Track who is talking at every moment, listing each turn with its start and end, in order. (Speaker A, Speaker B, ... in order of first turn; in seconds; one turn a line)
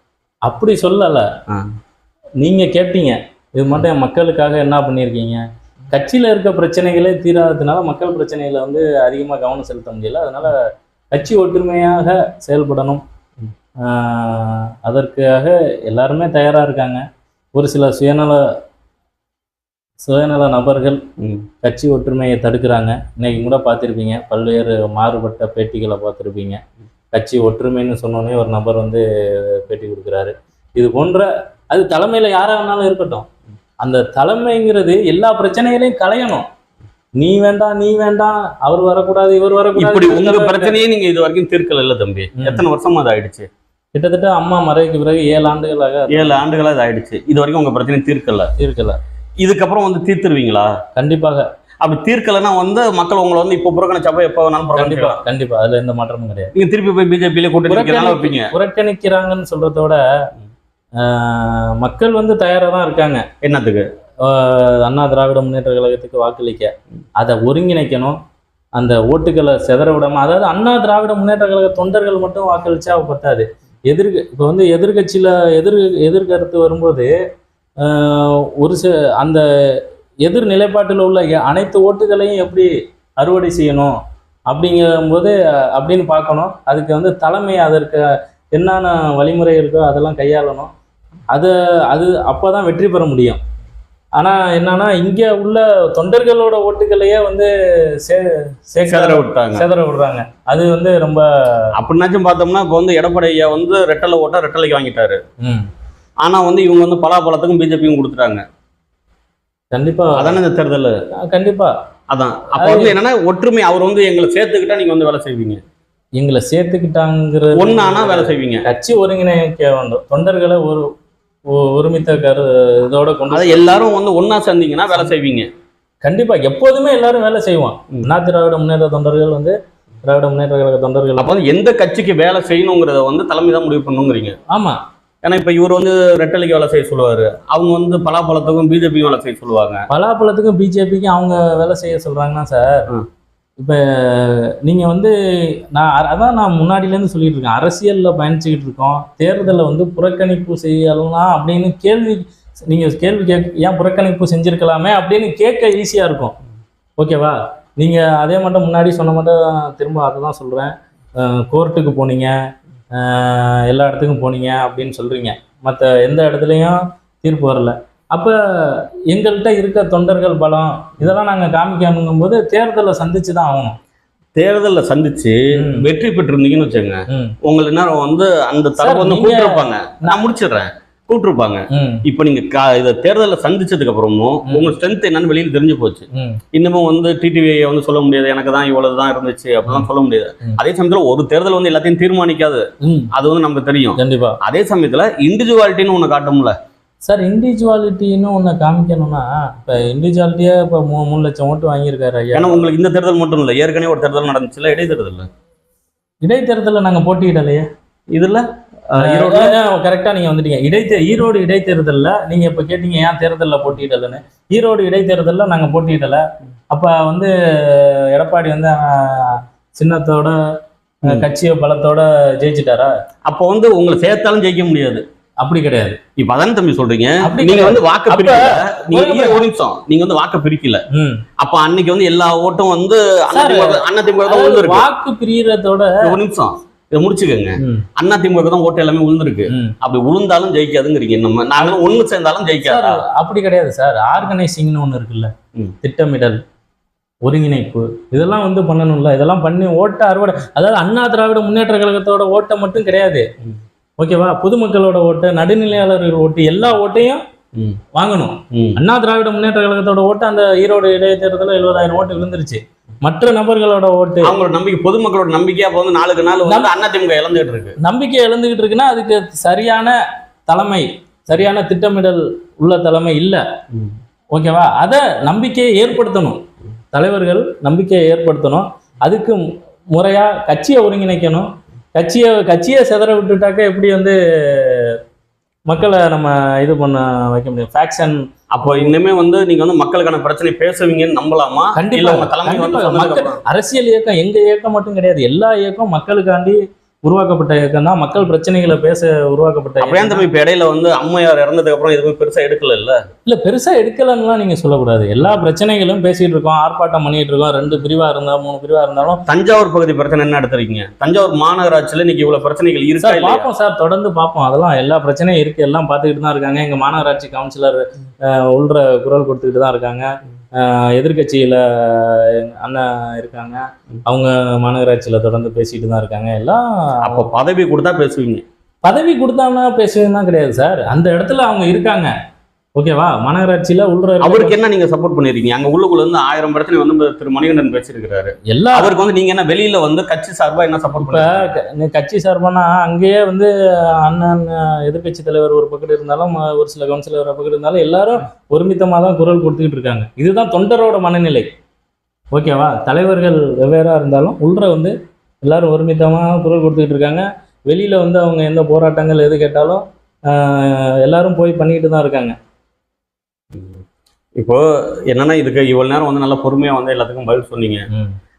Speaker A: 0.5-1.3
Speaker A: 2.4-13.0
Speaker A: 13.8-17.0
Speaker A: 17.6-18.4
Speaker A: 20.0-21.0
Speaker B: 21.2-21.5
Speaker A: 21.6-26.6
Speaker A: 27.1-33.3
Speaker A: 33.8-36.5
Speaker A: 37.2-40.8
Speaker B: 39.8-43.5
Speaker A: 42.4-42.6
Speaker A: 44.0-46.4
Speaker B: 46.1-48.5
Speaker A: 48.6-49.0
Speaker B: 49.4-50.8
Speaker A: 51.0-51.5
Speaker B: 51.8-55.2
Speaker A: 54.8-56.5
Speaker B: 56.5-58.5
Speaker A: 57.7-60.0
Speaker A: 61.0-63.2
Speaker B: 63.4-63.9
Speaker A: 64.2-68.2
Speaker A: 68.8-77.1
Speaker A: 77.8-84.0
Speaker A: 84.5-90.7
Speaker A: 91.3-93.4
Speaker A: 94.2-101.7
Speaker B: 98.8-99.7
Speaker B: 101.8-105.2
Speaker A: 105.4-105.7
Speaker B: 106.2-108.4
Speaker A: 109.7-110.4
Speaker B: 110.2-111.0
Speaker A: 111.2-111.7
Speaker B: 112.1-115.6
Speaker A: 112.6-113.0
Speaker A: 116.2-120.9
Speaker B: 117.6-118.7
Speaker A: 121.5-123.8
Speaker B: 123.3-125.5
Speaker A: 126.0-129.6
Speaker A: 130.1-131.4
Speaker B: 131.2-134.4
Speaker A: 134.5-134.8
Speaker B: 135.2-139.9
Speaker A: 139.9-142.9
Speaker A: 143.6-156.3
Speaker A: 157.0-162.3
Speaker A: 162.9-173.8
Speaker B: 174.4-196.6
Speaker A: 175.5-175.9
Speaker A: 177.1-177.3
Speaker A: 178.8-180.2
Speaker A: 181.7-182.0
Speaker A: 186.1-186.4
Speaker A: 192.8-193.1
Speaker A: 194.0-194.4
Speaker A: 197.1-202.6
Speaker B: 202.3-205.3
Speaker A: 206.2-207.7
Speaker B: 208.1-209.6
Speaker A: 209.0-220.4
Speaker A: 221.1-222.9
Speaker B: 223.3-225.0
Speaker A: 225.4-226.0
Speaker B: 226.2-230.8
Speaker A: 227.2-229.4
Speaker A: 230.9-231.2
Speaker B: 231.4-234.9
Speaker A: 233.3-236.2
Speaker B: 236.0-243.0
Speaker A: 237.6-237.9
Speaker A: 239.5-239.8
Speaker A: 242.6-245.3
Speaker A: 245.8-246.4
Speaker A: 247.2-253.3
Speaker A: 254.0-257.2
Speaker A: 257.9-264.3
Speaker B: 258.5-258.8
Speaker B: 264.2-267.8
Speaker A: 267.8-270.0
Speaker A: 270.5-273.4
Speaker A: 274.3-276.4
Speaker A: 276.9-285.0
Speaker A: 285.7-288.9
Speaker B: 288.5-293.4
Speaker A: 291.8-300.3
Speaker B: 299.8-303.0
Speaker A: 303.3-309.2
Speaker B: 309.3-313.5
Speaker A: 313.0-327.3
Speaker B: 327.0-328.4
Speaker A: 328.8-332.1
Speaker A: 332.8-334.6
Speaker B: 334.2-341.5
Speaker A: 338.5-338.9
Speaker A: 341.0-351.5
Speaker A: 352.3-362.4
Speaker B: 363.5-363.8
Speaker B: 364.4-367.9